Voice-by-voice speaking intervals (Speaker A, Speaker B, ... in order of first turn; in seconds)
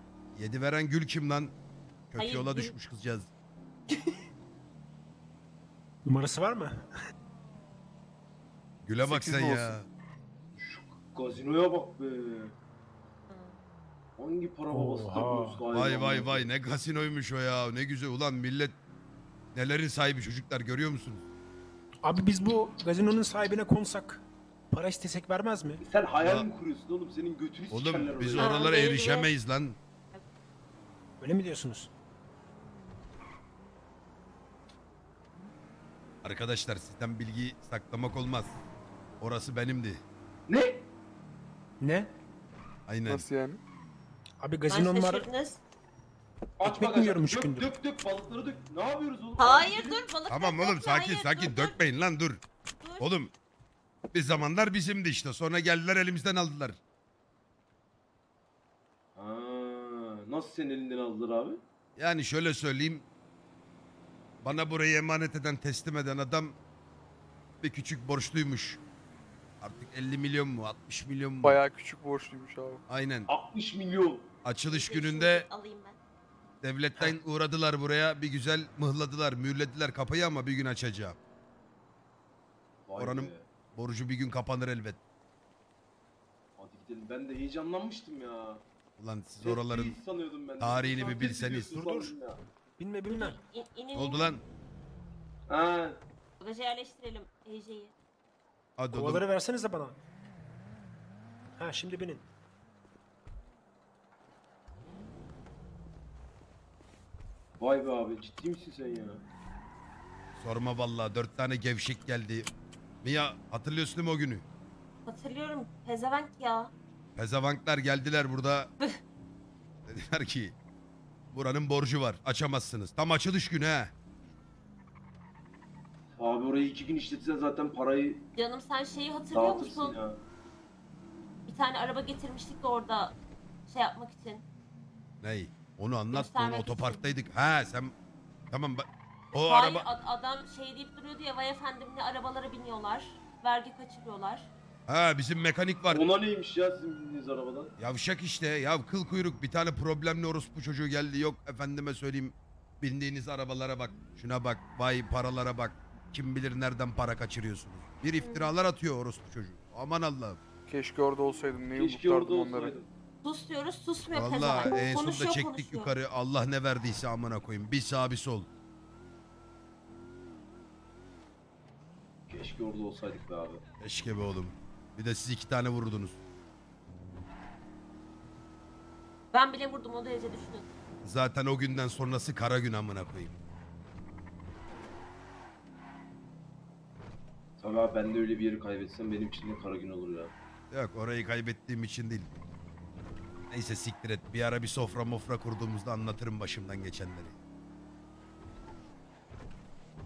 Speaker A: 0.3-1.6, 2.1-3.3, 8.8-9.9, 15.7-18.8, 19.5-21.2, 26.2-26.5, 27.7-29.8, 36.2-38.6, 39.2-40.0, 42.9-43.2, 50.3-52.4, 53.0-53.3, 54.1-56.8, 62.0-63.1, 64.4-66.6, 67.6-68.8, 69.6-71.6, 72.9-73.3, 74.4-75.5, 76.6-81.2, 83.0-85.0, 89.0-90.0, 90.6-91.8, 94.0-94.4, 98.8-99.3, 110.4-112.5, 113.0-114.5, 117.2-118.7, 119.9-120.6, 121.3-123.9, 135.2-137.9, 138.5-139.9, 144.9-146.1, 147.8-160.4, 164.1-168.5, 173.8-176.2, 181.0-183.4, 190.7-192.3, 193.5-197.4
Speaker B: 2.2-2.8, 13.3-13.6, 28.4-29.3, 44.7-45.6, 49.4-51.8, 52.8-53.1, 74.7-76.0, 93.1-94.3, 96.4-97.9, 115.1-116.7, 128.4-130.0, 131.5-133.2, 133.7-134.4, 136.1-137.0, 139.3-144.5, 158.2-158.5, 163.2-165.9, 179.3-180.7
Speaker C: 6.0-6.9, 14.7-15.6, 22.0-25.8, 31.2-31.9, 41.8-42.1, 44.4-45.3, 46.6-47.8, 91.7-92.2, 92.8-93.4, 98.9-100.0, 101.6-102.3
Speaker D: 9.0-9.8, 43.1-43.6, 71.4-72.8, 160.7-162.8
Speaker E: 10.6-12.6, 14.2-16.5, 25.8-28.7, 40.5-40.9, 46.6-50.1, 59.1-61.6, 73.3-74.3, 82.9-83.5, 86.6-88.6, 89.4-92.4, 95.5-96.0, 107.6-109.2, 126.2-128.3, 129.3-130.2, 145.9-147.8, 161.8-162.9, 172.3-173.6, 187.6-190.3